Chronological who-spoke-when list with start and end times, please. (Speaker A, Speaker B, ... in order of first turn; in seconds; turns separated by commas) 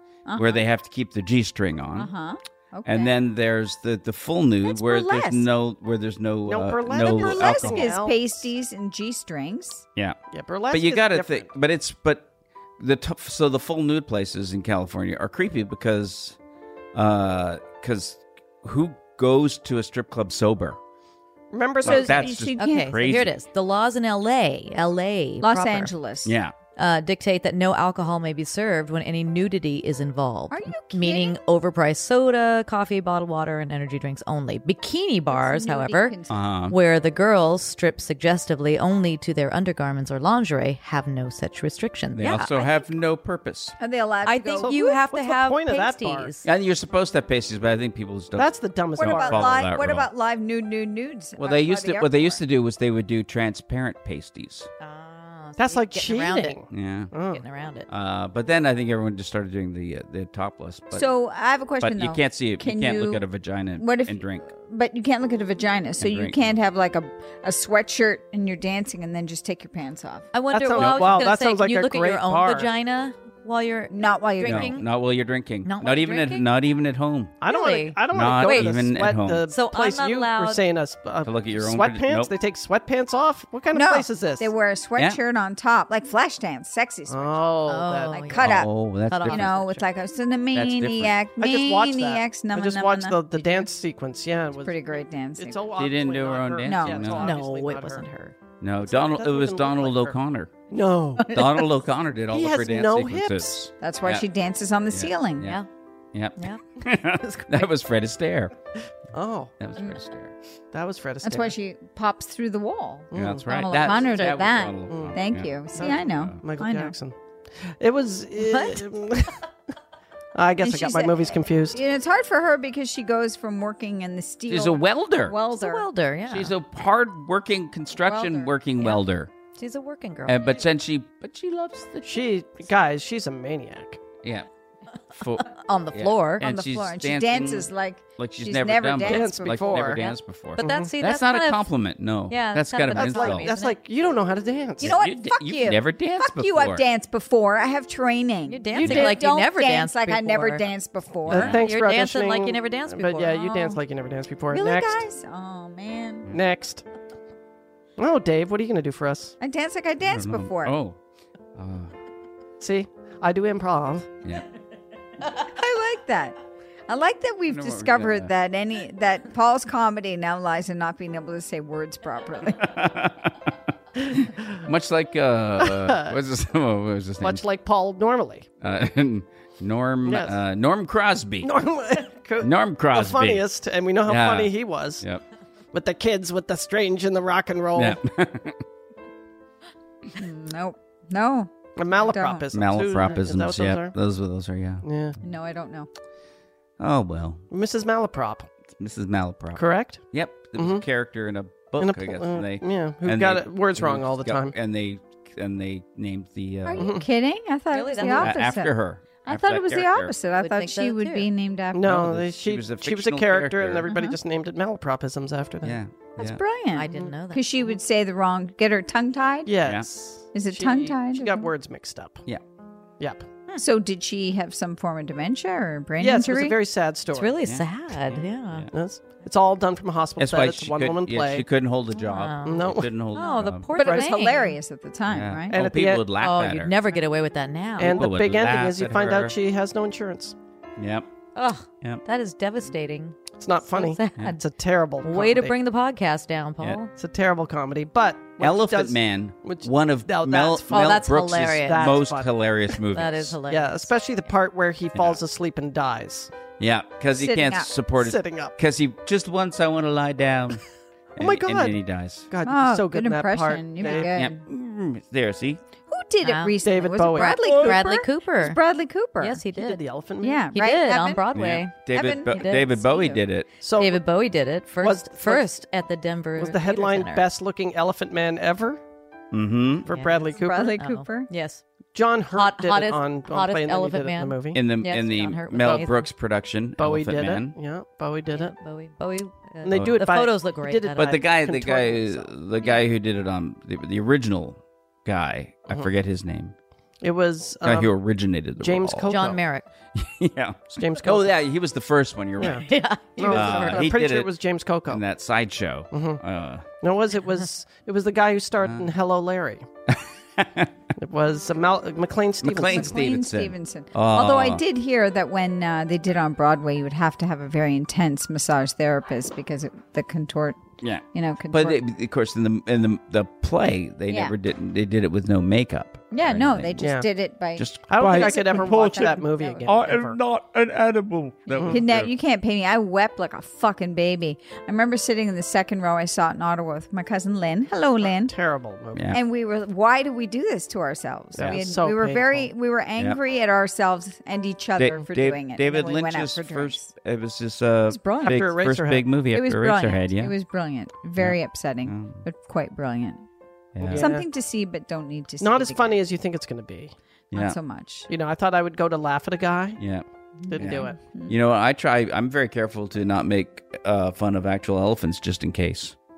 Speaker A: 0.2-0.6, Speaker B: 0.3-2.1, Speaker A: 1.9-3.1, Speaker B: 2.9-7.9, Speaker A: 4.6-5.5, Speaker C: 6.5-8.2, Speaker A: 6.9-9.8, Speaker C: 10.3-11.5, Speaker B: 10.7-12.3, Speaker B: 12.8-16.4, Speaker B: 16.9-20.8, Speaker C: 21.5-22.2, Speaker B: 21.8-23.3, Speaker A: 21.8-23.0, Speaker D: 22.6-25.9, Speaker A: 25.4-26.4, Speaker B: 26.2-26.5, Speaker D: 26.8-36.1, Speaker A: 30.5-31.4, Speaker A: 35.3-36.4, Speaker B: 36.3-36.8, Speaker D: 36.7-42.5, Speaker B: 42.1-43.8, Speaker A: 42.5-42.8, Speaker A: 43.8-45.0, Speaker D: 44.2-46.5, Speaker C: 44.6-46.3, Speaker B: 46.4-50.1, Speaker C: 48.3-49.5, Speaker A: 49.0-52.4, Speaker B: 51.4-54.7, Speaker D: 54.8-56.6, Speaker C: 55.6-57.4, Speaker B: 56.7-57.1, Speaker D: 57.2-57.9, Speaker B: 57.9-61.0, Speaker A: 60.9-63.2, Speaker B: 61.8-64.5, Speaker A: 63.8-70.3, Speaker B: 66.0-66.5, Speaker D: 70.3-74.8, Speaker C: 70.5-72.7, Speaker B: 70.8-71.0, Speaker A: 73.9-74.8, Speaker B: 74.4-77.4, Speaker D: 75.6-76.5, Speaker C: 77.4-84.5, Speaker D: 77.4-78.8, Speaker B: 78.1-79.5, Speaker D: 79.5-80.6, Speaker B: 81.2-82.3, Speaker A: 83.7-87.5, Speaker C: 87.1-88.2, Speaker D: 87.7-89.8, Speaker A: 88.1-88.7, Speaker B: 88.3-89.5, Speaker A: 89.2-93.7, Speaker B: 90.5-91.2, Speaker C: 91.4-98.0, Speaker A: 94.6-95.7, Speaker B: 95.8-97.3, Speaker A: 96.6-97.1, Speaker D: 97.2-98.3, Speaker B: 98.6-100.5, Speaker C: 98.8-100.1, Speaker C: 100.7-101.4, Speaker B: 101.2-104.2, Speaker C: 102.3-103.5, Speaker A: 103.8-105.5, Speaker B: 104.9-105.6, Speaker B: 106.1-108.5, Speaker C: 109.1-109.5, Speaker B: 109.6-110.3, Speaker C: 110.7-111.5, Speaker A: 111.2-116.9, Speaker C: 113.1-113.5, Speaker B: 113.1-116.4, Speaker C: 114.9-115.2, Speaker C: 115.8-119.4, Speaker D: 118.4-118.8, Speaker C: 120.3-121.8, Speaker A: 120.6-125.8, Speaker B: 124.5-125.3, Speaker D: 125.5-126.5, Speaker B: 126.3-129.3, Speaker A: 128.0-128.5, Speaker D: 129.6-130.4, Speaker B: 130.2-132.3, Speaker C: 132.0-134.0, Speaker B: 134.2-134.5, Speaker B: 135.1-143.5, Speaker D: 135.4-136.4, Speaker A: 136.4-139.9, Speaker C: 139.0-140.0, Speaker D: 139.8-141.7, Speaker C: 140.6-140.9, Speaker D: 142.3-143.8, Speaker C: 142.9-144.9, Speaker B: 144.8-146.8, Speaker A: 144.8-151.6, Speaker D: 148.5-150.6, Speaker B: 148.8-149.2, Speaker B: 151.2-151.6, Speaker C: 151.3-155.0, Speaker D: 151.4-153.8, Speaker A: 154.5-156.3, Speaker C: 156.3-156.8, Speaker C: 158.0-159.3, Speaker A: 159.4-160.8, Speaker B: 160.0-161.0, Speaker B: 161.5-161.9, Speaker C: 162.6-164.1, Speaker A: 165.3-166.3, Speaker A: 166.9-172.7, Speaker B: 167.5-168.3, Speaker B: 172.6-173.5, Speaker B: 174.1-177.4, Speaker C: 175.6-176.1, Speaker C: 177.2-178.5, Speaker B: 178.6-181.5, Speaker C: 180.0-180.4, Speaker C: 181.4-185.0, Speaker B: 182.4-183.5, Speaker B: 184.0-185.2, Speaker C: 185.7-188.0, Speaker B: 187.7-188.6, Speaker A: 190.1-192.4, Speaker C: 191.8-193.9, Speaker B: 192.5-194.8, Speaker C: 194.8-195.1, Speaker A: 195.2-195.9, Speaker B: 196.8-197.4, Speaker C: 197.5-198.5, Speaker B: 198.7-206.9, Speaker C: 199.5-200.0, Speaker C: 200.6-200.8, Speaker C: 201.8-204.5, Speaker A: 206.6-211.9, Speaker C: 206.8-207.1, Speaker D: 207.7-208.3, Speaker B: 208.1-210.1, Speaker D: 210.4-211.3, Speaker C: 211.7-215.8, Speaker B: 211.8-213.9, Speaker A: 213.9-214.2, Speaker B: 215.6-216.4, Speaker A: 216.2-219.5, Speaker D: 216.7-217.7, Speaker C: 219.4-222.2, Speaker B: 219.6-219.9, Speaker A: 220.3-221.5, Speaker C: 223.0-223.2, Speaker A: 223.6-226.6, Speaker C: 226.0-227.4, Speaker D: 227.1-228.7, Speaker B: 227.4-228.7, Speaker C: 228.7-231.4, Speaker B: 230.2-233.7, Speaker D: 232.0-234.6, Speaker C: 232.4-232.9, Speaker A: 233.8-235.6, Speaker C: 233.8-234.1, Speaker B: 235.1-236.7, Speaker C: 235.5-236.1, Speaker D: 236.2-238.0, Speaker C: 237.8-240.3, Speaker B: 237.8-239.3, Speaker B: 240.8-241.1, Speaker D: 241.3-244.3, Speaker C: 243.3-245.5, Speaker D: 245.0-246.9, Speaker C: 246.9-252.3, Speaker B: 248.4-253.4, Speaker D: 250.7-252.0, Speaker D: 252.9-254.3, Speaker C: 253.5-256.3, Speaker B: 254.9-255.2, Speaker B: 256.6-260.6, Speaker A: 257.1-257.7, Speaker C: 258.0-258.5, Speaker B: 261.1-262.3, Speaker C: 261.2-264.1, Speaker A: 262.4-264.4, Speaker B: 263.8-265.6, Speaker A: 265.9-269.4, Speaker D: 266.2-266.6, Speaker C: 266.6-267.8, Speaker D: 267.1-268.6, Speaker D: 269.2-269.8, Speaker C: 269.5-270.4, Speaker A: 270.2-271.2, Speaker D: 270.5-273.0, Speaker B: 271.3-273.5, Speaker A: 271.9-273.2, Speaker C: 273.6-274.0, Speaker D: 273.7-277.2, Speaker C: 274.8-275.5, Speaker C: 276.4-278.8, Speaker B: 279.3-279.9, Speaker C: 279.8-280.7, Speaker D: 279.9-281.6, Speaker A: 280.4-281.3, Speaker C: 281.9-284.6, Speaker D: 282.3-286.1, Speaker B: 284.5-287.6, Speaker C: 286.8-288.5, Speaker D: 288.3-291.2, Speaker C: 289.6-292.3, Speaker B: 289.7-290.0, Speaker B: 291.0-296.5, Speaker C: 297.0-297.9, Speaker B: 297.6-299.1, Speaker C: 298.6-299.4, Speaker D: 299.1-299.6, Speaker B: 299.9-302.7, Speaker C: 300.8-301.3, Speaker D: 302.4-303.9, Speaker C: 302.4-305.0, Speaker B: 303.2-304.3, Speaker B: 304.9-306.6, Speaker C: 305.9-306.2, Speaker C: 306.8-309.6, Speaker B: 308.6-308.9, Speaker B: 309.9-310.7, Speaker C: 311.0-312.9, Speaker B: 312.4-314.6, Speaker A: 312.6-321.8, Speaker B: 320.8-326.8, Speaker A: 324.1-324.3, Speaker A: 326.1-329.9, Speaker C: 326.8-327.1, Speaker B: 327.6-332.1, Speaker C: 327.9-330.2, Speaker A: 331.6-338.3, Speaker C: 338.0-339.1, Speaker B: 338.9-339.2, Speaker A: 339.1-346.9, Speaker C: 341.3-342.5, Speaker B: 344.8-350.3, Speaker A: 347.9-348.4, Speaker C: 348.2-349.1, Speaker A: 349.3-353.2, Speaker B: 351.2-352.2, Speaker B: 353.7-354.1, Speaker C: 353.8-354.2, Speaker A: 353.9-356.0, Speaker C: 355.4-356.9, Speaker B: 357.3-357.6, Speaker A: 357.3-358.1, Speaker C: 358.1-359.8, Speaker B: 359.8-360.0, Speaker A: 360.4-361.3, Speaker C: 360.5-361.0, Speaker B: 360.6-365.9